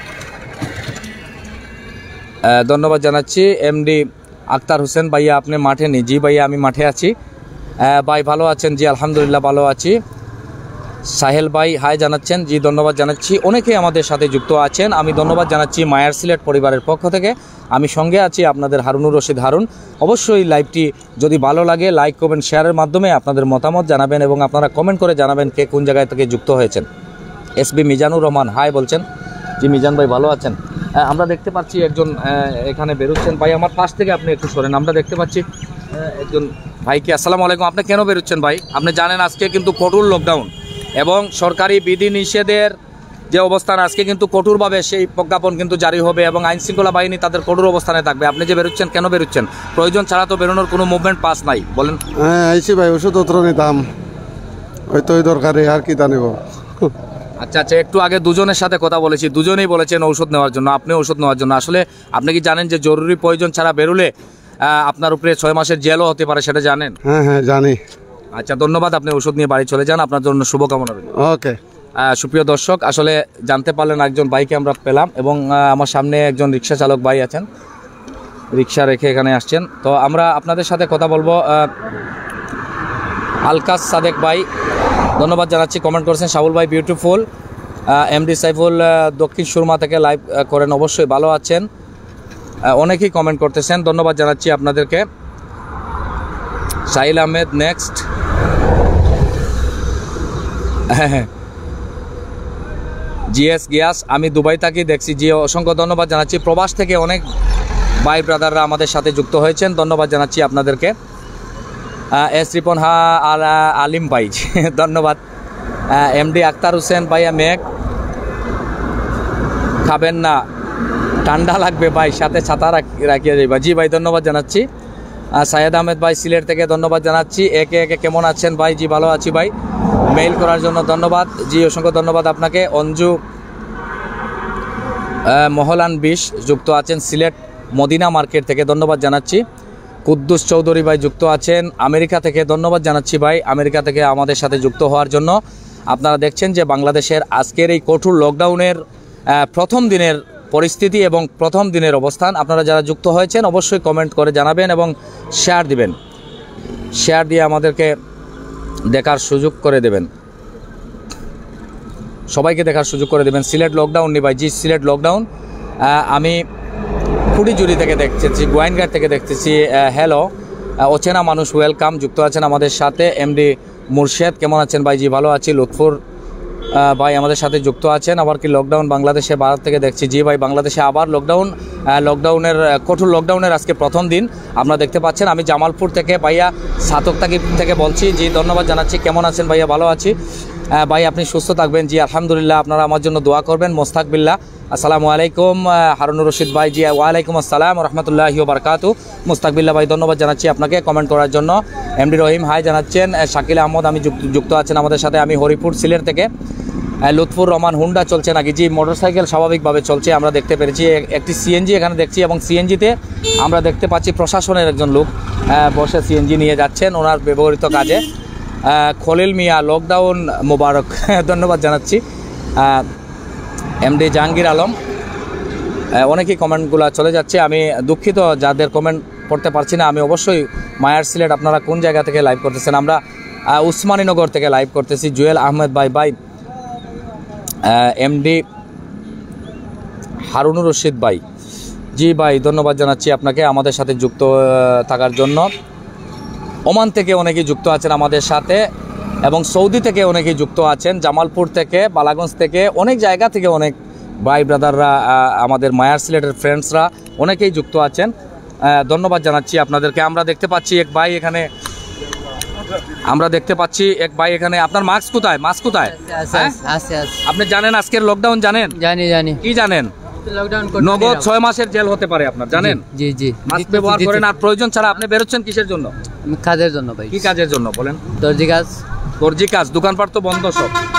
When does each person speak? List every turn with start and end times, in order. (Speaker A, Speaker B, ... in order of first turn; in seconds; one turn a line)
Speaker A: 2.4-7.1
Speaker A: 7.8-10.0
Speaker A: 11.1-26.9
Speaker A: 27.6-29.0
Speaker A: 29.6-42.7
Speaker A: 43.3-52.0
Speaker B: 52.2-53.9
Speaker B: 54.9-56.9
Speaker A: 57.4-64.1
Speaker A: 64.6-66.9
Speaker B: 67.0-67.8
Speaker A: 68.3-71.0
Speaker B: 71.1-71.6
Speaker A: 72.0-77.5
Speaker A: 78.5-81.7
Speaker A: 83.5-84.5
Speaker A: 85.2-87.2
Speaker A: 87.9-91.7
Speaker A: 92.7-95.1
Speaker A: 96.9-98.0
Speaker A: 100.9-101.3
Speaker A: 103.3-107.2
Speaker A: 108.0-110.9
Speaker A: 112.1-115.2
Speaker A: 115.9-117.6
Speaker A: 119.8-120.4
Speaker A: 121.2-124.7
Speaker A: 125.4-129.5
Speaker A: 130.1-133.2
Speaker A: 135.2-139.4
Speaker A: 140.1-145.4
Speaker A: 145.9-155.9
Speaker A: 156.9-157.9
Speaker A: 158.9-160.1
Speaker A: 162.3-165.2
Speaker A: 165.8-166.4
Speaker A: 167.3-170.3
Speaker A: 170.8-176.0
Speaker A: 176.7-190.2
Speaker A: 190.7-206.3
Speaker A: 207.0-218.0
Speaker A: 218.6-222.0
Speaker A: 222.6-222.9
Speaker A: 223.8-224.8
Speaker A: 225.9-236.1
Speaker A: 237.7-238.4
Speaker A: 240.3-241.2
Speaker A: 241.9-245.5
Speaker A: 246.7-248.6
Speaker A: 249.2-258.1
Speaker A: 258.6-261.5
Speaker A: 263.1-266.6
Speaker C: 265.9-267.2
Speaker A: 267.2-268.8
Speaker C: 268.8-269.4
Speaker A: 269.4-269.9
Speaker C: 270.2-271.3
Speaker A: 270.8-272.8
Speaker C: 272.6-274.3
Speaker A: 273.4-275.9
Speaker C: 276.3-277.3
Speaker A: 277.1-278.0
Speaker C: 278.1-278.8
Speaker A: 279.2-280.7